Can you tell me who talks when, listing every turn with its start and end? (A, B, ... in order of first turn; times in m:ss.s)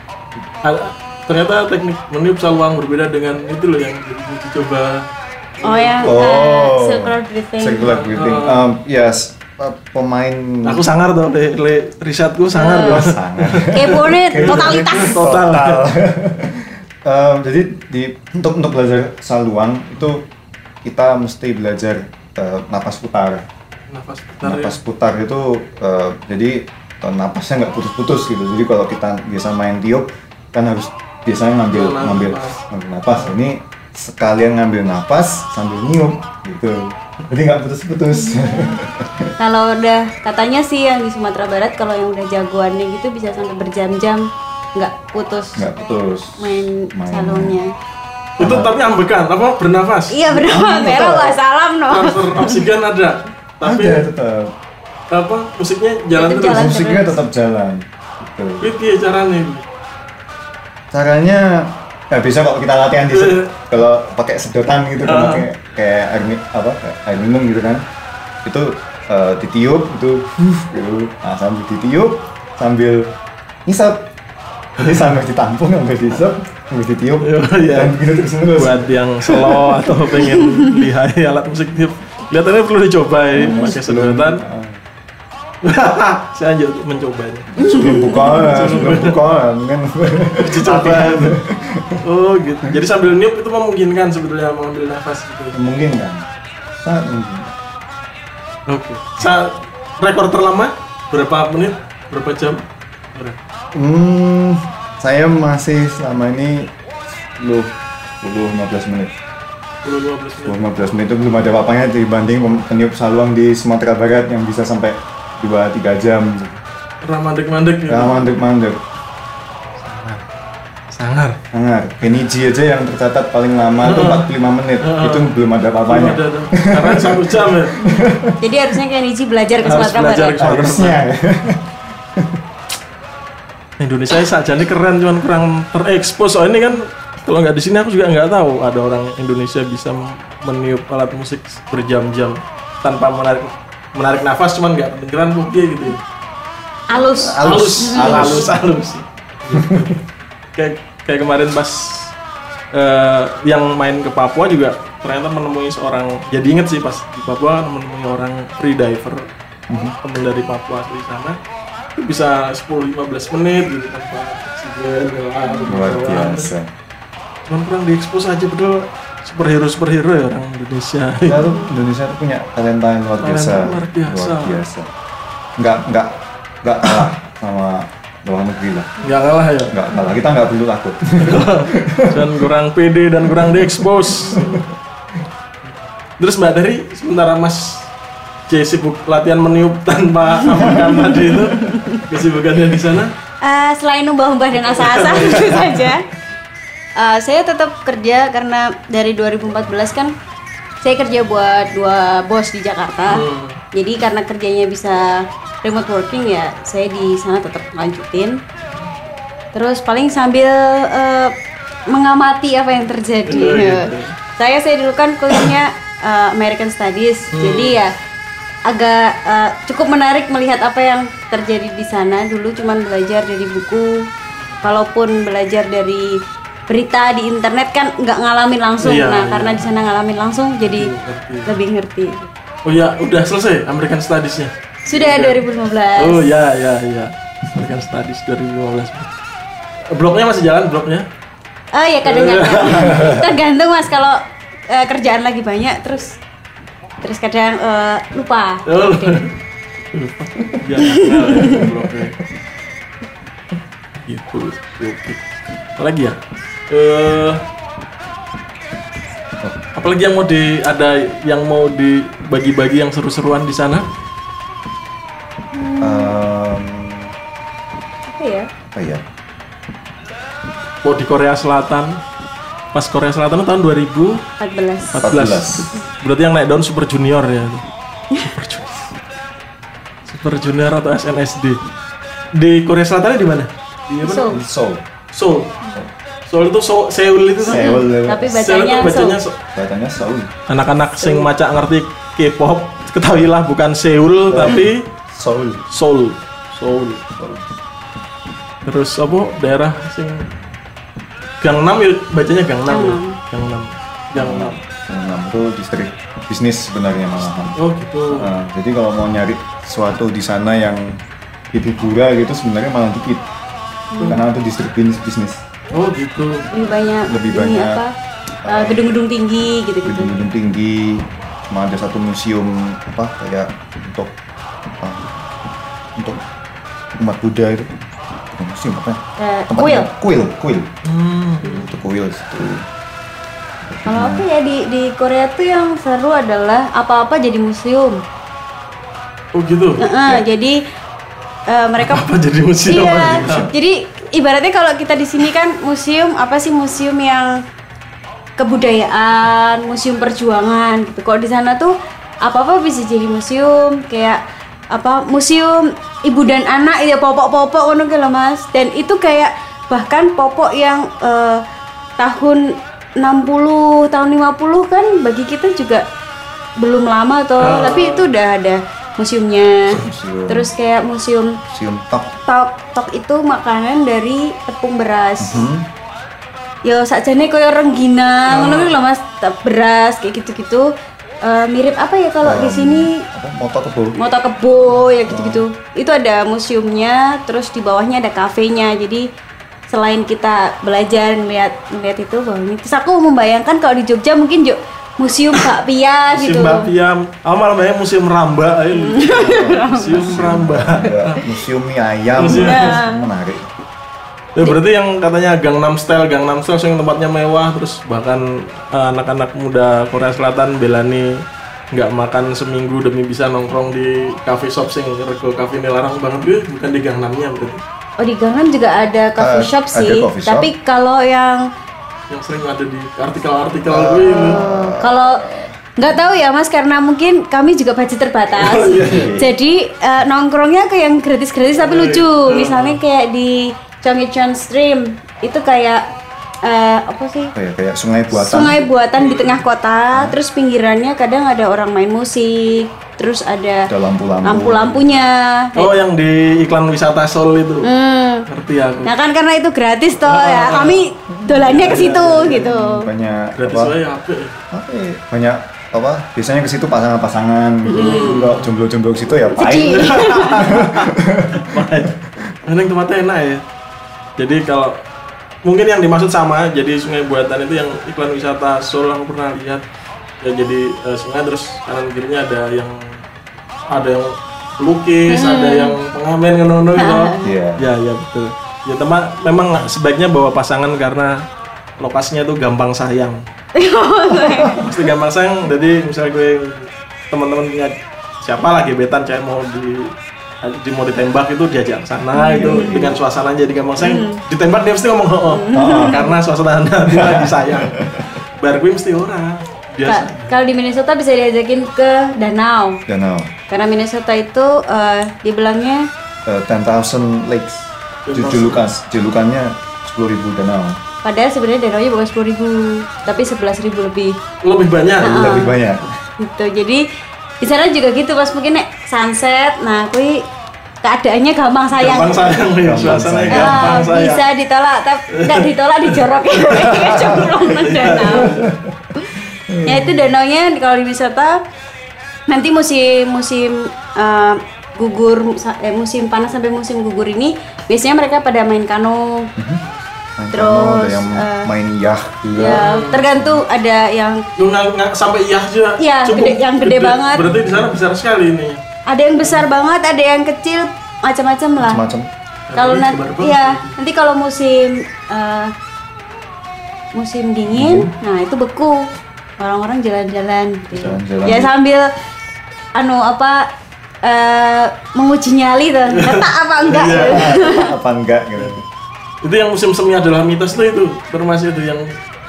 0:00.6-0:05.1 A
0:05.6-0:06.1 A
0:05.6-0:08.0 B
0:06.0-0:10.8 C
0:07.8-0:08.7 A
0:10.6-0:15.8 A
0:12.5-0:13.0 B
0:12.8-0:20.3 C
0:13.7-0:15.2 B
0:20.8-0:23.4 C
0:23.9-0:24.8 A
0:24.4-0:39.4 C
0:31.7-0:32.6 A
0:38.2-0:38.8 B
0:39.4-0:45.7 B
0:45.6-0:47.6 C
0:46.4-0:47.7 B
0:48.4-0:50.3 A
0:48.4-0:48.7 C
0:50.1-0:52.6 B
0:50.4-0:51.4 C
0:51.9-0:54.0 A
0:53.6-0:54.5 C
0:55.1-0:56.7 A
0:56.2-0:57.1 B
0:56.5-0:58.7 C
0:58.6-0:59.6 A
1:00.9-1:07.8 C
1:03.1-1:03.5 A
1:05.0-1:05.5 A
1:08.4-1:14.1 C
1:14.8-1:20.1 C
1:17.2-1:18.0 A
1:18.6-1:24.4 A
1:23.3-1:24.8 C
1:25.6-1:27.5 A
1:27.6-1:28.6 B
1:27.6-1:32.0 C
1:28.4-1:29.2 A
1:30.4-1:31.4 A
1:32.0-1:35.6 A
1:35.5-1:36.3 C
1:36.8-1:37.6 C
1:38.7-1:43.4 A
1:43.7-1:46.7 C
1:47.4-1:49.1 C
1:49.8-1:50.6 A
1:50.4-1:56.6 C
1:57.0-1:58.2 A
1:57.9-1:58.8 C
1:59.8-2:00.2 A
2:00.9-2:01.4 A
2:01.5-2:08.4 C
2:03.8-2:04.3 A
2:04.8-2:05.3 A
2:05.9-2:07.8 A
2:08.4-2:10.4 B
2:09.6-2:11.0 A
2:10.4-2:12.4 C
2:13.8-2:26.0 A
2:26.9-2:28.5 B
2:27.1-2:28.6 C
2:27.4-2:30.0 A
2:29.5-2:30.0 C
2:30.6-2:32.1 A
2:32.7-2:41.4 A
2:39.7-2:39.9 C
2:42.0-2:46.5 A
2:45.6-2:46.7 C
2:47.5-2:51.4 A
2:51.3-2:54.9 C
2:53.2-2:54.6 A
2:55.6-2:58.9 C
2:59.0-2:59.7 A
2:59.7-3:02.4 C
3:01.2-3:04.6 A
3:04.3-3:04.6 C
3:06.2-3:07.9 A
3:08.5-3:13.1 A
3:11.5-3:12.0 B
3:13.4-3:16.1 B
3:14.6-3:15.9 A
3:17.0-3:20.1 B
3:20.8-3:28.4 B
3:23.1-3:23.6 A
3:29.5-3:31.3 B
3:31.9-3:37.9 B
3:33.3-3:34.2 A
3:37.3-3:37.8 A
3:38.7-3:44.1 B
3:44.4-3:44.6 A
3:44.6-3:46.2 B
3:46.7-3:50.9 B
3:48.8-3:49.7 A
3:50.8-3:51.6 A
3:51.5-3:52.3 B
3:52.6-3:55.4 A
3:54.9-3:56.4 B
3:56.0-3:59.1 A
3:59.9-4:01.1 A
4:01.7-4:04.2 B
4:02.0-4:03.2 A
4:04.7-4:06.2 B
4:07.0-4:09.1 B
4:08.6-4:09.4 A
4:09.9-4:12.2 A
4:10.8-4:11.6 B
4:14.0-4:16.2 A
4:16.7-4:17.4 A
4:19.8-4:23.9 A
4:25.6-4:26.2 B
4:25.8-4:27.1 C
4:28.1-4:28.5 B
4:28.7-4:29.0 C
4:30.8-4:32.0 A
4:32.7-4:34.2 A
4:34.4-4:35.0 B
4:34.9-4:37.6 A
4:35.0-4:35.7 C
4:38.2-4:38.9 A
4:40.1-4:41.6 A
4:42.4-4:44.4 A
4:44.0-4:44.4 B
4:44.3-4:44.8 C
4:45.1-4:45.6 A
4:46.3-4:49.4 A
4:47.4-4:48.3 C
4:47.5-4:49.2 B
4:49.5-4:50.3 C
4:50.5-4:54.9 A
4:51.0-4:51.3 B
4:54.3-4:55.6 C
4:55.7-4:57.0 A
4:57.2-4:57.4 C
4:58.6-5:00.3 A
5:01.4-5:04.6 A
5:02.7-5:03.2 B
5:04.2-5:07.6 C
5:07.6-5:08.3 A
5:08.1-5:11.0 C
5:11.5-5:13.3 C
5:13.9-5:14.2 B
5:14.1-5:15.4 C
5:15.7-5:16.5 A
5:16.5-5:17.9 B
5:17.1-5:17.8 C
5:18.4-5:18.9 C
5:18.5-5:20.2 B
5:19.8-5:24.1 C
5:24.7-5:25.2 C
5:26.0-5:26.2 C
5:27.0-5:27.7 C
5:28.3-5:30.7 C
5:29.2-5:29.9 B
5:30.8-5:31.7 A
5:31.5-5:32.6 C
5:33.6-5:34.3 C
5:33.9-5:38.0 B
5:39.4-5:39.8 A
5:39.8-5:40.6 B
5:41.5-5:42.1 B
5:41.8-5:43.5 A
5:42.7-5:47.3 B
5:43.0-5:43.6 C
5:48.4-5:54.2 B
5:54.7-6:01.4 B
6:02.0-6:05.8 B
6:06.6-6:11.4 B
6:07.4-6:08.1 A
6:09.7-6:10.5 C
6:11.5-6:12.1 C
6:12.3-6:15.5 B
6:15.2-6:15.7 C
6:16.6-6:20.7 B
6:18.3-6:18.8 A
6:21.2-6:23.0 B
6:22.2-6:24.0 C
6:24.0-6:29.1 B
6:25.1-6:25.4 C
6:29.7-6:36.7 B
6:36.1-6:41.2 A
6:38.8-6:40.1 B
6:39.3-6:43.5 C
6:42.2-6:42.8 A
6:42.4-6:43.1 B
6:44.4-6:51.2 A
6:51.7-6:57.6 A
6:58.0-7:01.4 B
6:59.2-7:00.5 C
7:02.1-7:04.4 A
7:03.7-7:05.6 C
7:04.1-7:05.2 B
7:05.8-7:15.8 B
7:08.4-7:09.1 A
7:08.7-7:09.3 C
7:11.5-7:12.8 A
7:16.4-7:17.3 B
7:17.4-7:18.6 C
7:18.1-7:23.7 B
7:19.0-7:19.4 A
7:19.9-7:20.2 C
7:23.7-7:25.0 C
7:24.2-7:25.7 B
7:25.6-7:27.7 A
7:27.6-7:28.3 B
7:28.3-7:28.9 A
7:28.9-7:32.9 B
7:30.0-7:32.4 A
7:31.3-7:33.8 C
7:33.4-7:34.4 A
7:34.5-7:41.9 C
7:37.7-7:38.2 B
7:37.8-7:38.5 A
7:39.3-7:40.5 B
7:39.5-7:43.4 A
7:44.2-7:44.8 A
7:45.4-7:49.6 A
7:50.2-7:53.0 A
7:53.7-8:01.2 A
7:55.1-7:55.8 B
7:56.8-7:57.3 B
7:57.2-7:57.7 C
8:01.8-8:03.2 A
8:03.6-8:04.7 B
8:04.6-8:17.8 A
8:12.1-8:12.7 B
8:12.3-8:13.0 C
8:13.8-8:14.2 B
8:15.3-8:16.1 B
8:15.5-8:16.0 C
8:16.9-8:18.1 C
8:18.4-8:20.4 A
8:19.9-8:22.8 B
8:22.9-8:23.3 C
8:23.5-8:25.9 B
8:26.3-8:30.8 C
8:28.1-8:28.7 A
8:31.0-8:34.2 B
8:34.4-8:35.4 A
8:35.0-8:35.6 B
8:35.0-8:36.0 C
8:36.2-8:36.8 B
8:37.4-8:40.2 B
8:40.8-8:42.4 B
8:41.8-8:44.2 A
8:42.6-8:43.9 C
8:43.3-8:48.4 B
8:45.1-8:48.5 A
8:47.9-8:48.9 C
8:49.0-8:51.4 B
8:49.5-8:50.0 C
8:52.3-8:59.3 B
9:00.2-9:03.4 C
9:00.3-9:01.5 B
9:02.4-9:04.2 B
9:02.4-9:03.0 A
9:04.4-9:08.6 A
9:05.8-9:07.3 B
9:08.9-9:11.8 B
9:09.2-9:09.5 A
9:11.6-9:12.1 C
9:12.5-9:13.8 A
9:12.6-9:15.5 B
9:16.9-9:18.9 B
9:17.5-9:17.9 C
9:19.4-9:21.9 B
9:20.8-9:21.0 A
9:20.8-9:21.5 C
9:22.8-9:23.5 B
9:24.0-9:27.8 B
9:25.9-9:27.4 A
9:26.8-9:28.6 C
9:29.2-9:32.0 A